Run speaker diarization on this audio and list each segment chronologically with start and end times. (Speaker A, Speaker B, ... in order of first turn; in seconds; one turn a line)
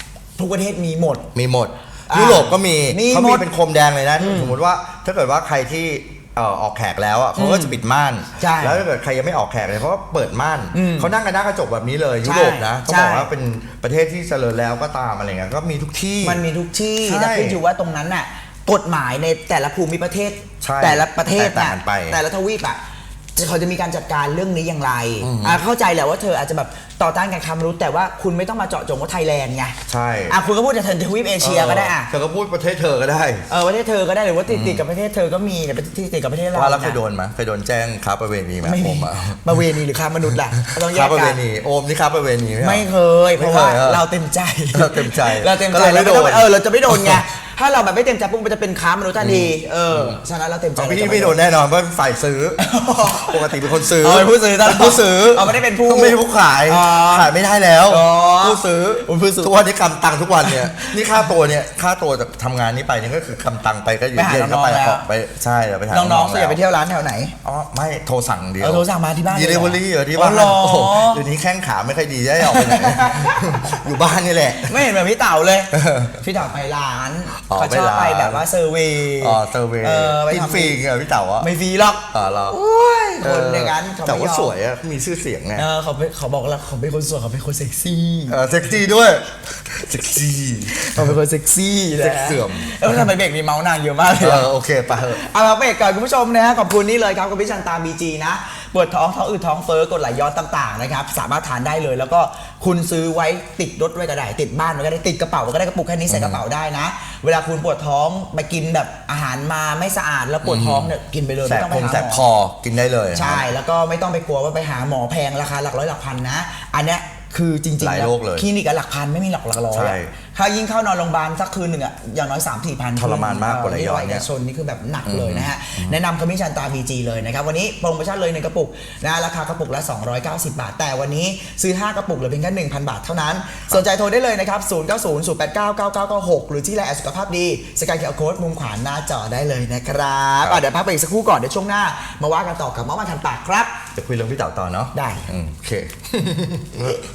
Speaker A: 0.4-1.3
Speaker B: 1.3-16.4
Speaker A: 2.1-3.5
Speaker A: 4.2-4.6
Speaker A: 7.4-7.8
Speaker A: 8.4-8.8
Speaker A: 10.7-11.1
Speaker A: 12.2-13.3
Speaker A: 16.2-22.8
Speaker B: 17.0-17.6
Speaker B: 20.6-22.2
Speaker A: 23.4-29.8
Speaker B: 25.2-25.6
Speaker B: 29.9-30.4
Speaker A: 30.3-32.1
Speaker B: 31.4-33.5
Speaker A: 33.5-37.0
Speaker B: 34.5-34.8
Speaker B: 36.5-39.6
Speaker A: 38.6-41.4
Speaker B: 40.8-44.0
Speaker A: 42.6-51.4
Speaker B: 44.7-47.2
Speaker B: 49.2-50.2
Speaker B: 50.8-66.6
Speaker A: 52.6-57.3
Speaker A: 57.8-59.6
Speaker A: 60.4-61.3
Speaker A: 64.1-65.1
Speaker A: 65.9-67.4
Speaker B: 67.4-74.9
Speaker A: 68.6-71.3
Speaker A: 72.4-73.6
Speaker A: 74.6-80.8
Speaker B: 75.7-76.2
Speaker B: 77.5-78.5
Speaker B: 79.2-81.5
Speaker A: 81.4-84.6
Speaker B: 82.1-82.6
Speaker B: 83.2-85.7
Speaker A: 85.6-88.4
Speaker B: 88.3-91.2
Speaker A: 90.7-94.5
Speaker B: 92.0-93.1
Speaker B: 94.2-95.2
Speaker A: 95.1-112.2
Speaker B: 106.1-106.4
Speaker B: 110.5-110.9
Speaker B: 111.5-113.5
Speaker A: 113.1-143.7
Speaker B: 117.8-118.5
Speaker B: 119.7-120.1
Speaker B: 123.0-124.3
Speaker B: 125.1-126.0
Speaker B: 143.9-147.0
Speaker A: 144.9-145.3